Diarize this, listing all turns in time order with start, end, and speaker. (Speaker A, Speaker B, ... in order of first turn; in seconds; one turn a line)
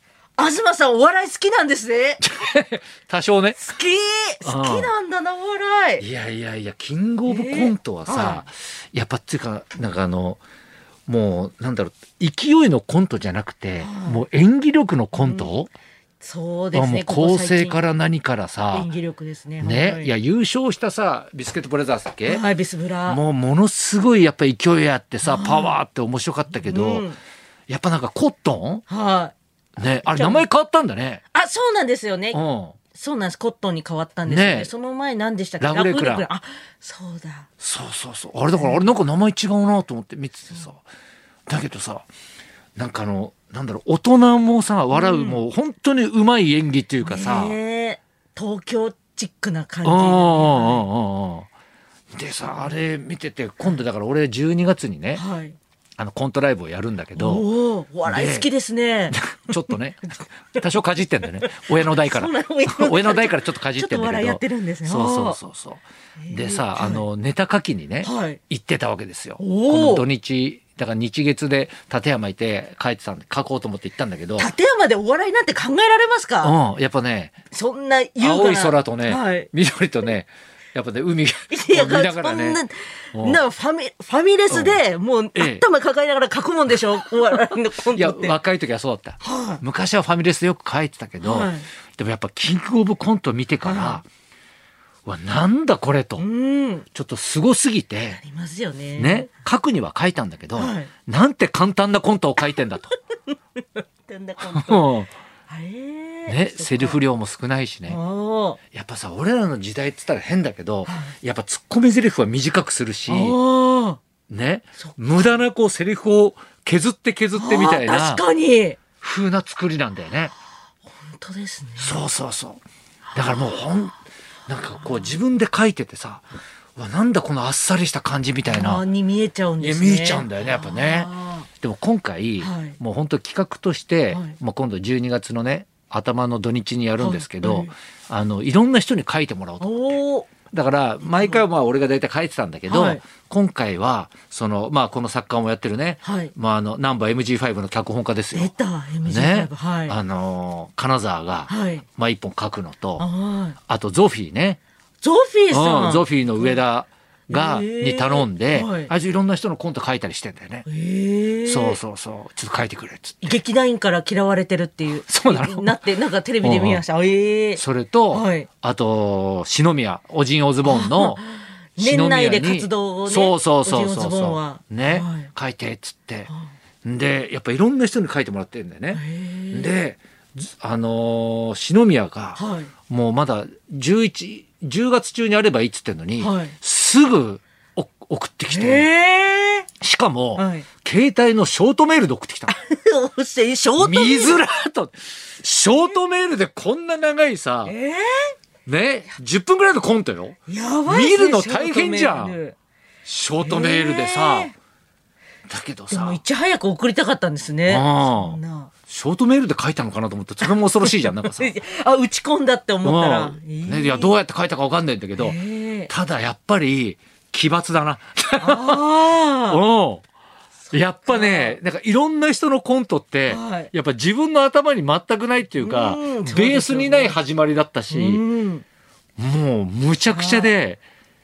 Speaker A: 0.4-2.2
Speaker B: 2.2-3.6
Speaker A: 3.6-6.0
Speaker B: 4.4-4.9
Speaker B: 6.0-10.4
Speaker A: 7.3-8.4
Speaker B: 11.1-15.7
Speaker A: 13.8-14.2
Speaker A: 15.2-15.5
Speaker A: 16.2-17.8
Speaker B: 16.7-18.9
Speaker A: 18.7-20.1
Speaker B: 19.6-22.4
Speaker A: 22.2-23.2
Speaker B: 23.1-27.0
Speaker A: 25.2-25.8
Speaker A: 26.6-27.2
Speaker B: 27.7-28.8
Speaker A: 28.9-29.3
Speaker B: 29.8-31.2
Speaker A: 30.1-30.4
Speaker A: 31.3-32.4
Speaker B: 32.3-32.8
Speaker A: 32.9-37.5
Speaker B: 34.3-34.7
Speaker B: 35.6-36.2
Speaker B: 37.6-40.8
Speaker A: 38.5-38.8
Speaker B: 41.5-42.1
Speaker B: 42.8-47.5
Speaker A: 44.9-45.4
Speaker A: 47.0-50.9
Speaker B: 49.8-51.5
Speaker B: 52.1-55.2
Speaker A: 55.1-55.5
Speaker B: 56.0-57.4
Speaker A: 57.1-59.8
Speaker B: 58.0-58.5
Speaker B: 59.1-74.5
Speaker A: 61.4-65.4
Speaker A: 66.2-67.0
Speaker A: 68.0-68.4
Speaker A: 69.4-70.0
Speaker A: 74.4-76.5
Speaker B: 76.4-77.3
Speaker A: 77.5-79.5
Speaker B: 78.2-82.6
Speaker A: 81.5-88.4
Speaker B: 83.1-83.4
Speaker B: 84.5-84.8
Speaker B: 85.3-85.6
Speaker B: 87.9-94.0
Speaker A: 89.2-89.6
Speaker A: 91.2-91.7
Speaker A: 93.6-94.0
Speaker B: 95.0-96.2
Speaker A: 96.2-96.8
Speaker B: 96.9-98.2
Speaker A: 98.1-99.3
Speaker B: 99.0-103.0
Speaker A: 100.5-100.9
Speaker A: 103.3-104.9
Speaker B: 104.4-105.1
Speaker A: 105.5-107.0
Speaker B: 106.3-108.0
Speaker A: 107.9-108.6
Speaker B: 108.7-113.4
Speaker A: 110.8-111.1
Speaker A: 113.1-114.0
Speaker B: 114.3-118.2
Speaker A: 114.8-115.4
Speaker A: 117.3-118.8
Speaker B: 119.0-120.3
Speaker A: 121.0-122.0
Speaker B: 121.8-122.6
Speaker B: 123.1-128.8
Speaker A: 123.1-123.6
Speaker A: 128.4-131.5
Speaker B: 129.6-139.8
Speaker A: 132.4-132.8
Speaker A: 134.1-134.3
Speaker A: 137.0-137.7
Speaker A: 139.6-140.3
Speaker B: 140.5-148.5
Speaker A: 141.0-141.4
Speaker A: 142.7-143.0
Speaker A: 146.0-146.3
Speaker A: 148.3-150.0
Speaker B: 149.0-153.1
Speaker A: 151.5-151.8
Speaker A: 153.0-153.6
Speaker B: 153.7-154.6
Speaker A: 155.0-156.6
Speaker B: 155.5-160.7
Speaker A: 157.3-158.9
Speaker A: 160.7-161.8
Speaker B: 161.4-163.4
Speaker A: 163.2-168.5
Speaker B: 165.1-165.8
Speaker B: 166.4-166.8
Speaker B: 167.6-171.2
Speaker A: 170.6-175.3
Speaker B: 171.8-176.3
Speaker B: 176.8-188.9
Speaker A: 178.9-179.7
Speaker A: 182.3-182.7
Speaker A: 186.2-186.5
Speaker A: 188.5-189.7
Speaker B: 189.8-192.6
Speaker A: 190.3-190.7
Speaker A: 192.5-194.4
Speaker B: 193.8-197.7
Speaker A: 197.6-198.3
Speaker B: 198.7-200.3
Speaker A: 200.5-202.6
Speaker B: 200.9-202.4
Speaker B: 203.0-204.5
Speaker A: 203.4-204.5
Speaker B: 205.5-206.2
Speaker A: 205.9-208.7
Speaker B: 207.7-211.5
Speaker A: 210.4-214.1
Speaker B: 212.8-215.4
Speaker A: 215.2-215.9
Speaker B: 215.9-218.8
Speaker A: 218.4-219.6
Speaker B: 219.5-220.0
Speaker A: 220.7-221.6
Speaker B: 220.7-228.2
Speaker A: 223.3-223.7
Speaker A: 225.6-227.2
Speaker A: 227.9-228.6
Speaker B: 229.2-230.8
Speaker A: 230.1-230.5